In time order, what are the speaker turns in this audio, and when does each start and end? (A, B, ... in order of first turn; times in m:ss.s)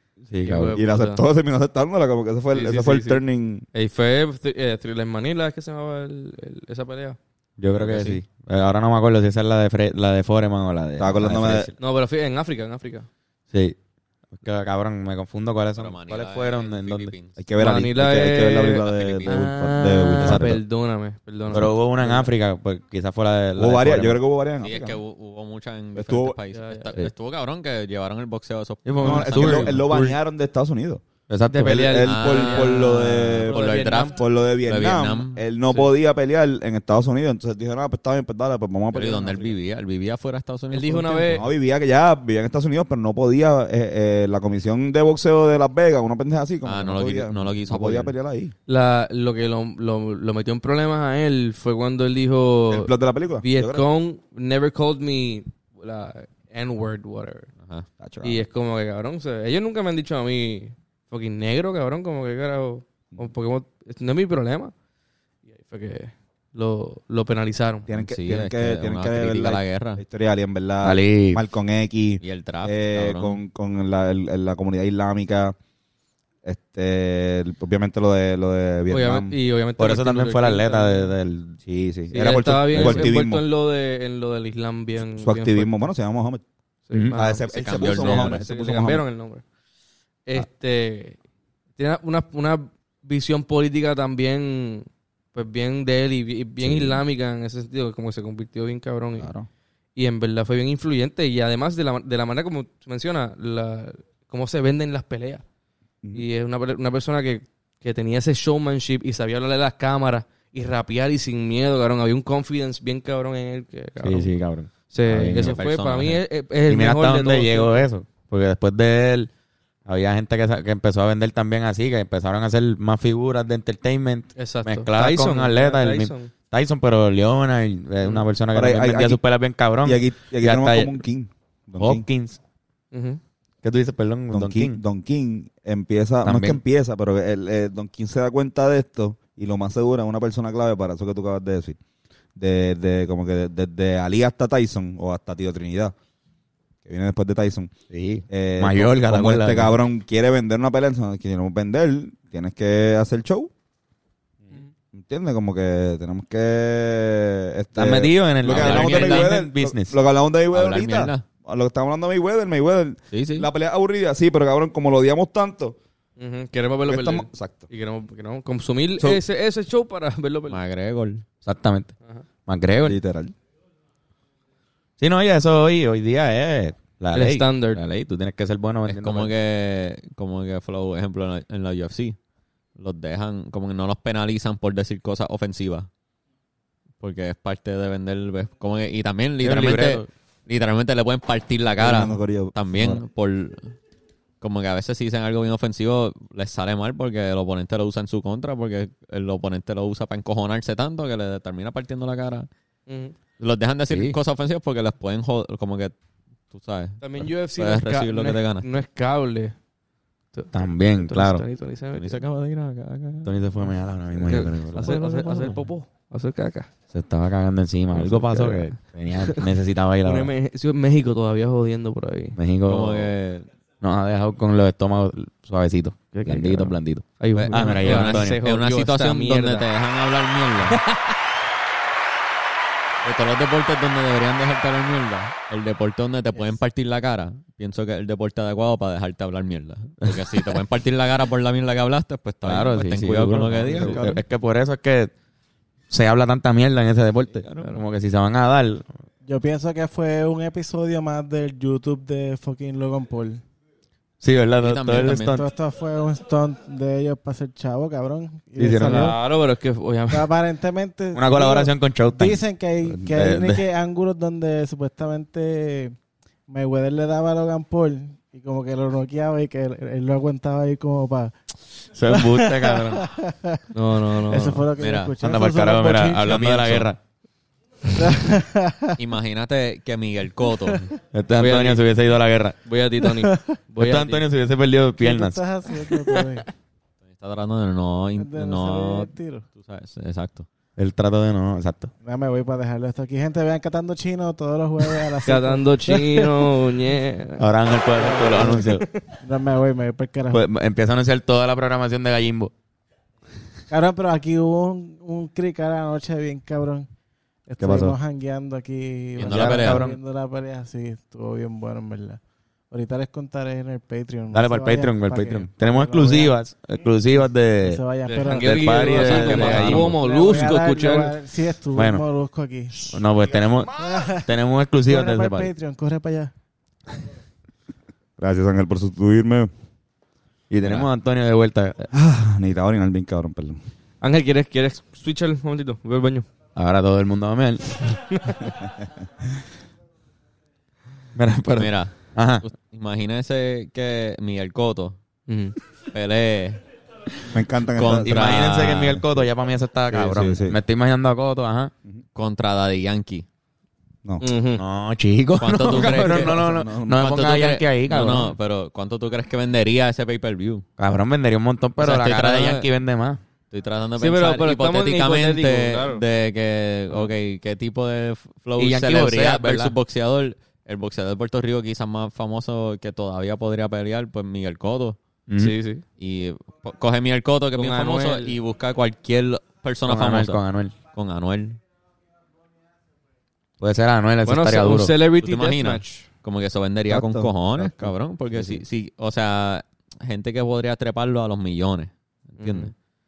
0:00.3-0:00.8 A
0:00.4-0:01.2 B
0:00.7-0:03.7 C
0:02.5-0:03.2 B
0:03.7-0:07.2 B
0:07.6-0:11.8 A
0:07.8-0:08.2 D
0:11.0-0:11.7 C
0:11.8-0:13.1 B
0:13.5-0:13.8 A
0:14.4-0:17.1 A
0:15.8-0:17.4 D
0:17.4-0:20.6 C
0:17.6-0:22.3 B
0:18.8-0:19.4 D
0:20.2-0:20.6 A
0:21.5-0:24.2 A
0:23.6-0:25.0 C
0:24.6-0:29.9 D
0:26.0-0:26.4 C
0:26.5-0:26.9 B
0:28.9-0:30.2 A
0:29.0-0:31.0 C
0:31.3-0:32.0 A
0:31.5-0:34.2 B
0:31.6-0:39.6 C
0:32.0-0:35.4 D
0:38.9-0:41.4 D
0:40.7-0:41.4 B
0:41.3-0:48.5 C
0:46.6-0:48.1 D
0:48.7-0:52.9 B
0:52.7-0:53.8 C
0:53.4-0:57.5 B
0:58.0-0:58.4 C
0:58.2-1:04.7 B
1:05.5-1:07.9 B
1:07.9-1:15.6 C
1:08.0-1:10.0 D
1:10.8-1:11.4 A
1:12.2-1:13.4 D
1:16.4-1:19.4 C
1:18.9-1:21.1 B
1:19.8-1:21.6 A
1:21.6-1:23.4 C
1:22.1-1:25.8 B
1:22.8-1:23.1 A
1:25.2-1:26.4 C
1:26.9-1:29.4 B
1:27.1-1:29.0 C
1:27.5-1:28.4 D
1:30.3-1:31.2 B
1:31.8-1:39.3 B
1:36.6-1:37.0 C
1:39.2-1:39.5 C
1:40.0-1:45.4 B
1:46.2-1:54.3 B
1:54.0-1:55.6 A
1:54.9-1:57.9 B
1:55.3-1:56.2 D
1:56.7-1:59.3 A
1:59.9-2:11.0 A
2:04.4-2:06.3 B
2:08.5-2:09.2 C
2:09.8-2:12.0 C
2:11.8-2:12.4 A
2:12.9-2:13.2 B
2:13.6-2:14.8 A
2:14.3-2:21.8 C
2:16.2-2:16.6 A
2:22.4-2:25.9 C
2:26.8-2:27.7 C
2:27.9-2:29.8 A
2:28.3-2:33.5 C
2:34.9-2:45.8 C
2:37.8-2:40.0 A
2:38.5-2:39.4 D
2:40.5-2:41.2 D
2:43.1-2:43.5 D
2:46.2-2:50.6 B
2:46.9-2:47.7 C
2:50.5-2:51.2 D
2:51.4-2:51.9 A
2:52.5-2:53.0 A
2:52.8-2:53.3 C
2:55.0-2:59.3 A
2:57.1-2:57.8 B
2:58.9-3:02.2 D
3:02.8-3:05.9 D
3:07.0-3:13.7 D
3:09.4-3:10.1 A
3:11.8-3:13.0 C
3:14.4-3:22.5 D
3:22.9-3:23.2 B
3:23.4-3:26.0 D
3:23.9-3:24.2 A
3:26.5-3:28.7 D
3:27.0-3:29.6 B
3:30.3-3:32.2 B
3:30.5-3:31.4 A
3:31.9-3:33.4 D
3:33.2-3:35.0 A
3:34.2-3:36.7 B
3:34.7-3:35.6 D
3:36.9-3:40.3 A
3:38.0-3:39.5 B
3:40.0-3:42.4 B
3:42.4-3:43.1 A
3:42.7-3:43.5 D
3:43.8-3:48.4 A
3:46.1-3:49.6 B
3:47.4-3:50.8 D
3:50.7-3:51.0 B
3:53.0-4:04.2 D
4:02.4-4:05.1 A
4:03.6-4:04.2 B
4:05.9-4:08.9 A
4:07.4-4:07.8 D
4:09.2-4:13.4 E
4:14.2-4:15.5 A
4:14.6-4:15.4 D
4:15.1-4:19.2 E
4:18.6-4:19.1 A
4:18.8-4:20.3 B
4:20.1-4:26.0 E
4:21.1-4:23.6 A
4:26.5-4:36.4 E
4:32.0-4:33.1 A
4:33.7-4:34.7 B
4:34.8-4:35.2 D
4:35.2-4:37.0 A
4:36.3-4:36.9 D
4:37.9-4:39.0 E
4:39.0-4:40.9 D
4:41.1-4:42.6 A
4:41.4-4:41.8 B
4:42.6-4:44.2 B
4:43.2-4:43.6 E
4:43.8-4:45.4 A
4:45.0-4:46.5 E
4:45.9-4:46.4 B
4:47.1-4:50.5 D
4:48.2-4:49.4 E
4:50.8-4:51.9 A
4:52.0-4:56.5 E
4:55.2-4:57.5 B
4:57.4-4:58.9 A
4:58.0-5:00.4 E
4:58.4-4:58.8 B
5:00.3-5:02.5 A
5:03.7-5:06.9 E
5:07.5-5:12.2 E
5:07.6-5:07.9 A
5:09.2-5:09.8 D
5:09.2-5:10.0 A
5:12.7-5:16.4 E
5:14.3-5:17.8 A
5:17.6-5:23.0 E
5:18.1-5:21.2 B
5:18.3-5:20.3 A
5:21.8-5:22.0 A
5:22.8-5:25.5 A
5:23.7-5:24.3 E
5:24.9-5:26.3 E
5:28.2-5:29.5 C
5:30.5-5:31.9 A
5:31.9-5:33.6 C
5:34.0-5:36.3 B
5:36.6-5:37.9 A
5:38.1-5:38.6 B
5:41.2-5:42.4 A
5:41.6-5:45.0 D
5:45.3-5:45.6 B
5:45.9-5:46.6 D
5:47.3-5:48.4 C
5:47.8-5:49.0 D
5:48.0-5:51.7 A
5:49.9-5:50.6 C
5:52.2-5:53.3 D
5:54.2-5:54.6 B
5:54.6-5:58.3 A
5:55.4-5:56.4 D
5:55.8-5:57.3 C
5:57.0-6:00.6 D
6:00.8-6:03.2 A
6:01.8-6:02.7 D
6:03.5-6:15.0 D
6:04.0-6:06.0 B
6:08.6-6:09.8 A
6:15.3-6:15.6 A
6:15.4-6:15.8 B
6:16.0-6:21.6 D
6:17.6-6:18.3 B
6:19.9-6:20.8 A
6:23.6-6:24.9 A
6:24.2-6:26.0 B
6:25.2-6:32.7 D
6:26.9-6:28.6 C
6:32.4-6:32.7 B